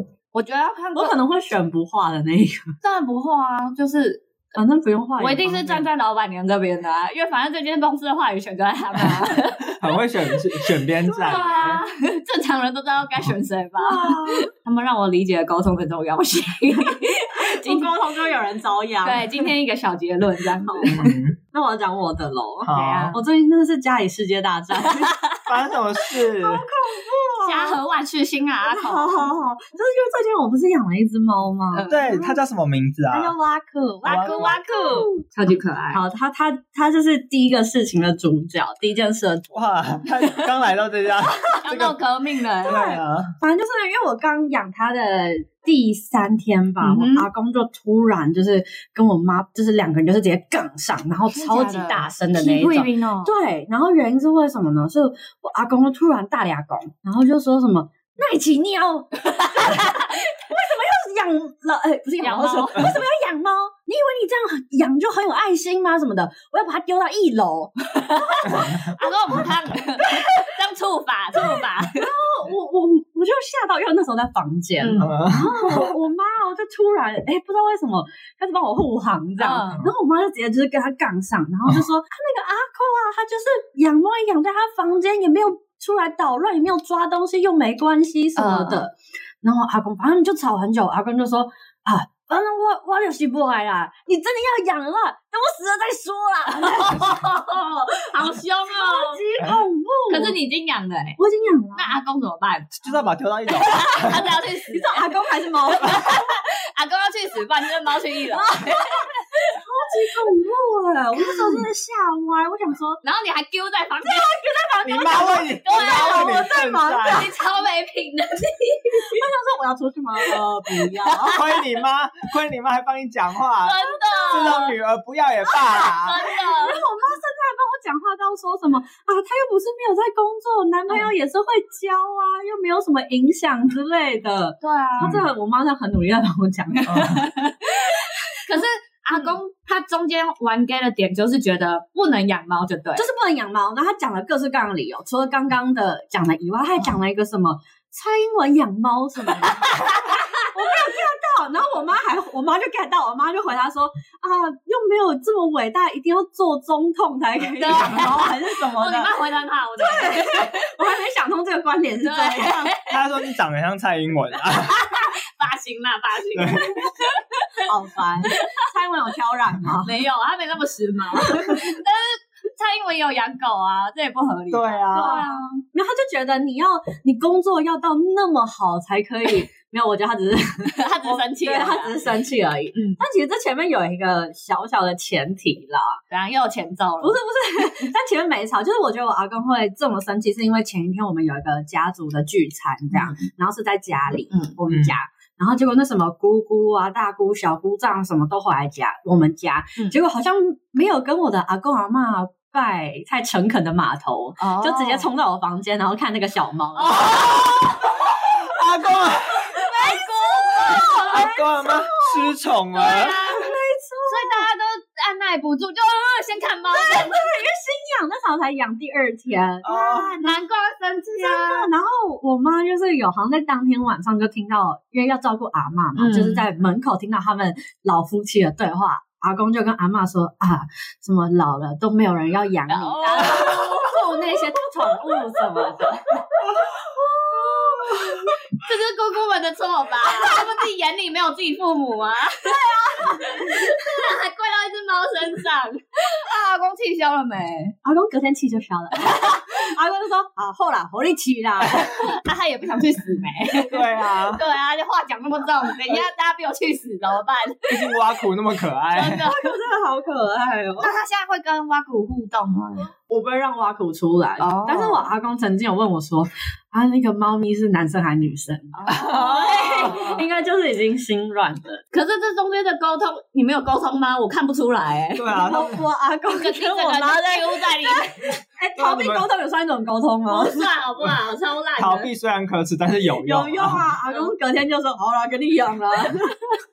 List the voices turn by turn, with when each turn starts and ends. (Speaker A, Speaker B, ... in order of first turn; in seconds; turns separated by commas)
Speaker A: 0.3-1.1, Speaker B: 0.9-2.7, Speaker A: 2.8-4.2, Speaker B: 4.5-5.9, Speaker A: 5.2-9.8, Speaker C: 9.8-11.8, Speaker B: 11.0-11.6, Speaker A: 11.2-17.9, Speaker B: 13.8-14.5, Speaker B: 17.4-19.5, Speaker A: 19.0-21.1, Speaker B: 20.5-25.2, Speaker C: 20.9-21.4, Speaker C: 22.6-23.2, Speaker A: 22.7-23.2, Speaker A: 25.0-25.4, Speaker C: 25.4-26.6, Speaker B: 26.4-27.8, Speaker A: 27.4-29.2, Speaker B: 28.6-32.4, Speaker A: 31.7-32.1, Speaker C: 31.9-33.3, Speaker B: 33.1-35.2, Speaker A: 34.0-36.0, Speaker C: 34.1-34.5, Speaker B: 35.9-39.5, Speaker C: 39.5-42.0, Speaker A: 41.5-42.8, Speaker C: 42.6-43.3, Speaker B: 42.6-69.4, Speaker A: 46.8-47.3, Speaker A: 51.3-53.3, Speaker A: 62.2-62.9, Speaker A: 67.9-72.1, Speaker B: 71.5-97.2, Speaker A: 74.8-75.2, Speaker C: 75.0-75.9, Speaker A: 79.4-79.8, Speaker A: 88.3-88.8, Speaker A: 96.5-99.2, Speaker B: 98.7-100.4, Speaker A: 100.1-101.2, Speaker B: 101.2-102.0, Speaker A: 101.7-109.6, Speaker C: 102.7-104.3, Speaker B: 104.7-106.2, Speaker B: 108.3-113.0, Speaker A: 111.2-111.6, Speaker A: 113.0-114.4, Speaker B: 114.0-117.3, Speaker C: 114.8-117.3, Speaker A: 115.6-116.5, Speaker A: 117.1-119.2, Speaker B: 118.9-121.4, Speaker A: 120.2-121.6, Speaker C: 121.3-123.8, Speaker A: 123.6-124.7, Speaker B: 123.9-124.6, Speaker C: 124.3-126.2, Speaker A: 125.5-126.8, Speaker B: 125.7-137.3, Speaker A: 134.6-135.1, Speaker C: 135.0-135.3, Speaker C: 136.9-137.2, Speaker A: 137.1-143.1, Speaker B: 142.9-159.1, Speaker A: 149.7-150.2, Speaker A: 157.6-160.7, Speaker B: 159.8-162.7, Speaker A: 162.0-163.0, Speaker C: 162.9-164.8, Speaker A: 164.6-167.7, Speaker C: 166.3-166.8, Speaker B: 167.6-169.9, Speaker A: 169.8-175.4, Speaker B: 171.2-171.6, Speaker C: 174.5-175.2, Speaker B: 174.9-186.0, Speaker A: 180.7-182.0, Speaker A: 182.7-183.0, Speaker A: 186.1-187.2, Speaker B: 187.0-207.2, Speaker A: 192.9-193.3, Speaker A: 194.3-194.6, Speaker C: 194.7-194.9, Speaker A: 204.4-205.1, Speaker A: 206.7-208.1, Speaker C: 208.1-209.5, Speaker B: 209.5-212.4, Speaker A: 209.5-211.4, Speaker C: 210.8-213.2, Speaker A: 212.7-213.5, Speaker B: 213.3-214.5, Speaker A: 214.1-217.3, Speaker B: 216.7-220.4, Speaker C: 219.6-220.1, Speaker A: 220.2-221.7, Speaker B: 221.2-238.3, Speaker A: 225.9-226.4, Speaker A: 232.7-236.2, Speaker A: 237.3-247.8, Speaker B: 240.1-240.5, Speaker B: 242.4-244.0, Speaker B: 247.8-252.1, Speaker A: 249.0-249.5, Speaker A: 251.8-258.0, Speaker C: 253.6-254.4, Speaker C: 257.7-259.2, Speaker A: 258.9-259.5, Speaker B: 259.2-260.9, Speaker A: 260.8-262.9, Speaker B: 263.1-271.8, Speaker A: 264.4-265.1, Speaker A: 268.7-270.2, Speaker C: 268.9-270.0, Speaker A: 271.9-275.3, Speaker C: 275.1-275.8, Speaker B: 275.3-280.7, Speaker A: 276.3-278.4, Speaker C: 278.8-279.3, Speaker A: 280.3-282.1, Speaker C: 281.8-283.9, Speaker B: 283.0-286.6